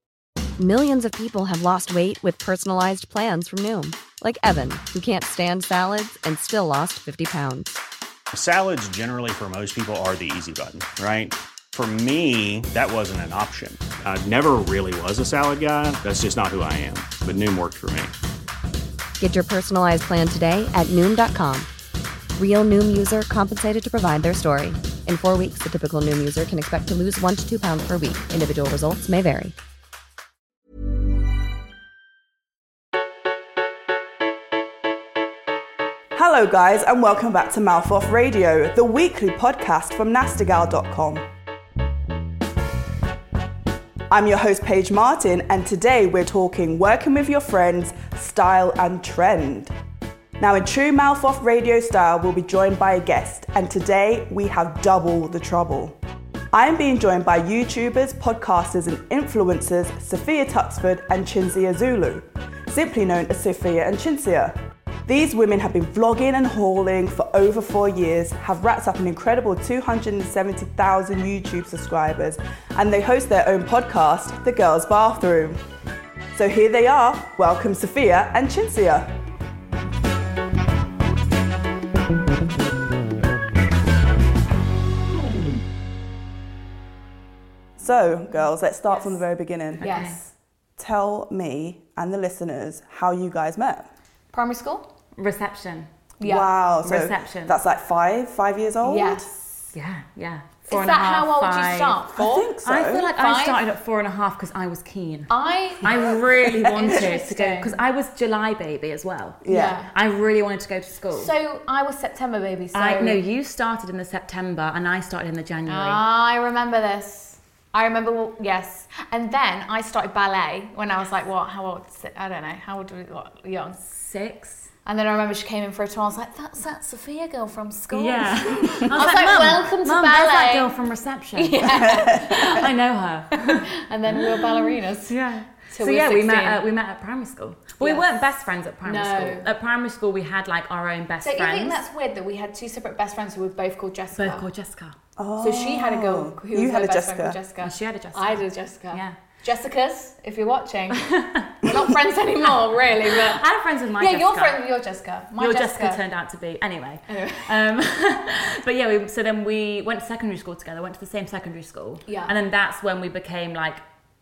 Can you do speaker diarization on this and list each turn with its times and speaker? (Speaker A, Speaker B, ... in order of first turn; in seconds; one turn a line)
Speaker A: 0.6-7.8
Speaker B: 8.3-18.1
Speaker A: 19.2-21.7
Speaker A: 22.4-29.5
Speaker C: 36.1-41.3
Speaker C: 44.1-49.7
Speaker C: 50.4-56.0
Speaker C: 56.5-75.6
Speaker C: 76.3-79.1
Speaker C: 87.8-90.1
Speaker D: 89.8-90.2
Speaker E: 89.8-90.2
Speaker C: 90.8-93.9
Speaker E: 94.3-94.9
Speaker D: 95.2-95.9
Speaker E: 96.2-96.5
Speaker C: 96.2-99.3
Speaker D: 96.8-97.6
Speaker E: 98.8-99.7
Speaker D: 99.7-102.0
Speaker E: 100.7-102.5
Speaker C: 102.1-103.1
Speaker D: 102.6-111.3
Speaker E: 103.2-103.6
Speaker E: 105.3-107.7
Speaker C: 109.4-109.8
Speaker E: 109.5-109.9
Speaker E: 111.2-113.2
Speaker D: 112.7-116.0
Speaker E: 115.7-123.8
Speaker D: 123.9-124.7
Speaker E: 124.8-130.8
Speaker D: 127.9-141.8
Speaker E: 131.3-132.7
Speaker E: 133.4-135.2
Speaker E: 135.7-136.6
Speaker E: 137.8-138.1
Speaker E: 138.9-139.5
Speaker E: 141.2-144.4
Speaker D: 144.2-145.0
Speaker C: 145.2-147.4
Speaker E: 145.4-151.1
Speaker D: 147.6-149.2
Speaker D: 150.9-151.6
Speaker E: 151.6-153.4
Speaker D: 152.4-154.6
Speaker E: 154.0-156.0
Speaker D: 155.4-163.8
Speaker E: 157.1-157.6
Speaker E: 162.1-162.3